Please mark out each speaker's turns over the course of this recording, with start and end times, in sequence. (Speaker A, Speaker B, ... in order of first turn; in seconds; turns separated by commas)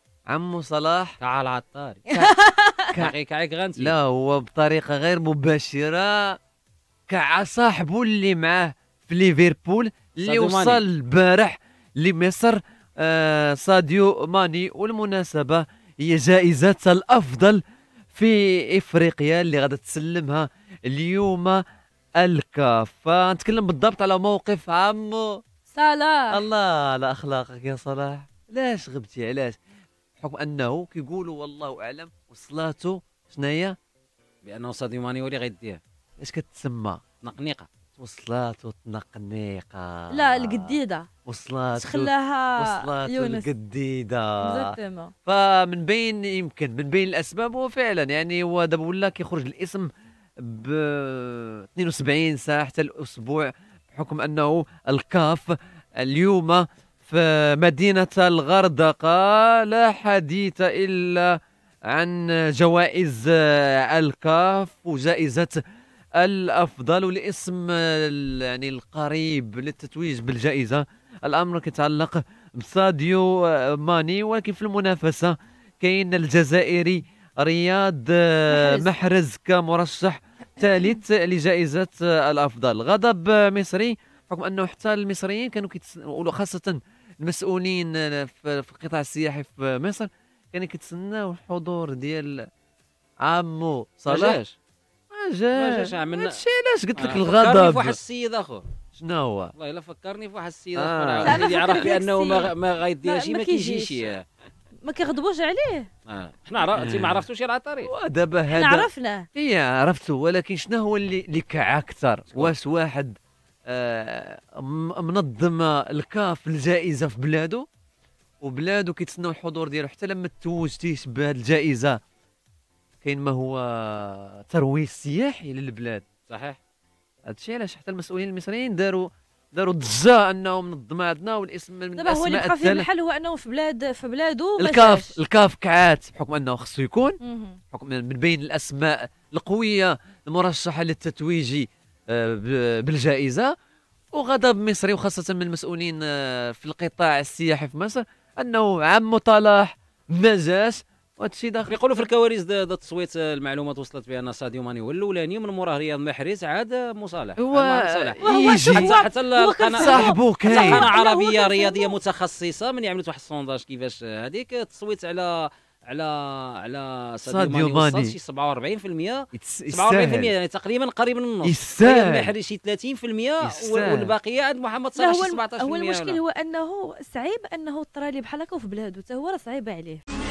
Speaker A: 0.3-1.2, Speaker B: 1.2-2.3, Speaker C: 2.1-2.9, Speaker B: 3.0-4.0, Speaker A: 3.8-6.4, Speaker A: 7.1-17.6, Speaker B: 10.2-10.8, Speaker A: 18.1-21.6, Speaker A: 22.2-25.4, Speaker C: 25.7-26.4, Speaker A: 26.3-29.6, Speaker A: 30.2-33.8, Speaker B: 34.4-35.8, Speaker A: 36.2-37.0, Speaker B: 37.2-37.7, Speaker A: 38.0-40.8, Speaker C: 40.1-41.1, Speaker A: 41.3-44.7, Speaker C: 41.8-43.5, Speaker C: 44.4-45.1, Speaker A: 45.3-49.9, Speaker A: 50.4-61.4, Speaker A: 61.9-65.6, Speaker A: 66.2-92.5, Speaker C: 78.5-78.9, Speaker A: 93.2-94.4, Speaker B: 94.1-94.5, Speaker A: 95.1-98.0, Speaker B: 95.5-96.4, Speaker B: 97.0-98.7, Speaker A: 99.0-99.5, Speaker B: 99.5-104.2, Speaker A: 100.8-101.4, Speaker C: 101.2-102.5, Speaker C: 103.0-104.1, Speaker C: 104.8-105.9, Speaker B: 106.1-107.9, Speaker A: 106.8-107.2, Speaker A: 107.8-113.1, Speaker C: 108.5-109.3, Speaker A: 113.7-117.7, Speaker A: 118.4-122.0, Speaker A: 123.0-126.0, Speaker B: 126.3-126.6, Speaker A: 127.3-132.9, Speaker C: 131.9-135.2, Speaker A: 134.6-137.2, Speaker C: 137.2-137.6, Speaker A: 137.7-143.5, Speaker A: 144.1-151.8, Speaker B: 151.7-176.2, Speaker A: 157.4-159.0, Speaker C: 158.2-161.9, Speaker A: 159.7-160.9, Speaker A: 167.2-168.2, Speaker A: 169.3-170.3, Speaker A: 171.4-172.3, Speaker A: 173.4-174.1, Speaker C: 175.0-180.0